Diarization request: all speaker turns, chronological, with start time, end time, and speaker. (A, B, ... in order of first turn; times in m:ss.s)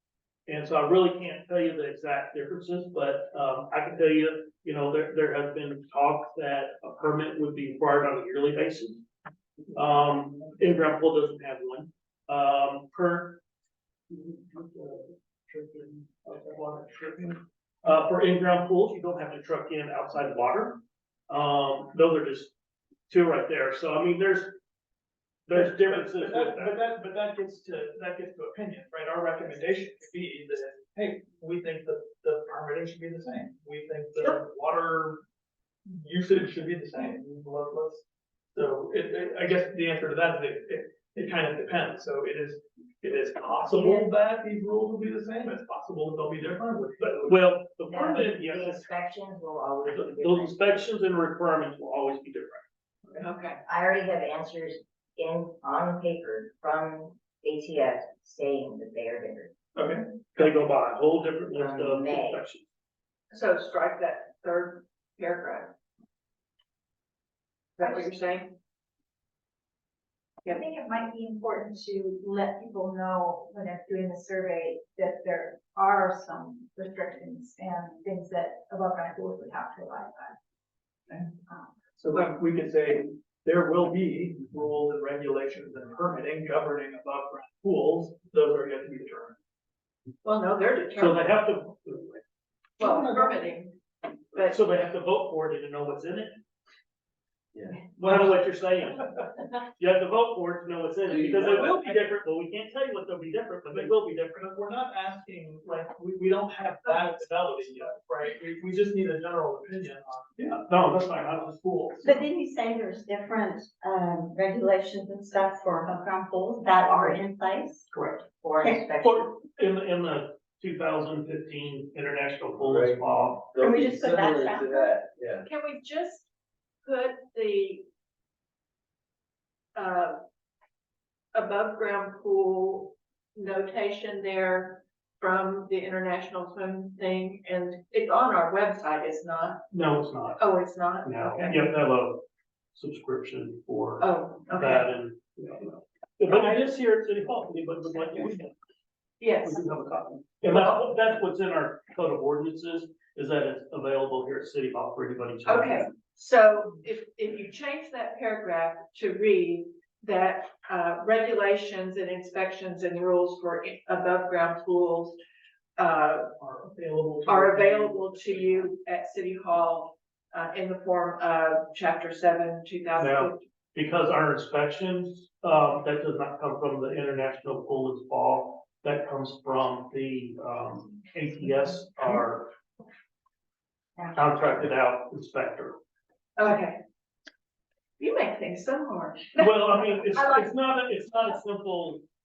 0:00.5-0:09.0 A
0:09.7-0:13.4 A
0:14.1-0:22.5 A
0:23.1-0:24.6 A
0:25.5-0:26.7 A
0:25.5-0:35.2 B
0:35.9-0:47.4 B
0:47.2-0:48.9 A
0:47.9-0:50.5 C
0:49.9-0:52.6 A
0:53.2-0:53.6 D
0:53.6-0:59.5 C
0:59.7-1:00.5 B
1:00.4-1:02.7 A
1:01.5-1:02.4 C
1:03.3-1:05.7 D
1:07.8-1:08.5 D
1:10.4-1:20.3 E
1:21.1-1:21.7 E
1:22.0-1:29.3 B
1:30.2-1:31.3 D
1:31.0-1:32.2 A
1:32.8-1:33.8 D
1:34.4-1:36.4 A
1:37.9-1:44.4 A
1:41.1-1:42.1 B
1:43.7-1:50.6 B
1:50.6-1:52.1 A
1:51.7-1:52.1 B
1:52.0-1:57.8 F
1:57.9-1:58.2 A
1:58.4-1:59.3 C
1:59.0-2:03.6 A
2:02.6-2:03.0 G
2:03.5-2:05.4 G
2:03.6-2:04.9 F
2:05.4-2:06.3 D
2:06.8-2:07.8 D
2:09.7-2:10.2 D
2:11.3-2:19.6 D
2:19.7-2:20.5 A
2:20.4-2:21.7 D
2:21.0-2:22.2 A
2:22.7-2:28.5 A
2:24.0-2:24.9 D
2:26.3-2:26.6 D
2:29.2-2:29.6 D
2:29.4-2:35.9 A
2:30.4-2:30.9 D
2:35.4-2:45.2 D
2:45.8-2:46.3 D
2:46.4-2:48.7 A
2:47.2-2:53.4 D
2:53.0-3:02.5 A
3:04.1-3:05.8 A
3:06.4-3:06.8 D
3:08.0-3:09.5 D
3:09.4-3:12.0 A
3:10.2-3:10.4 D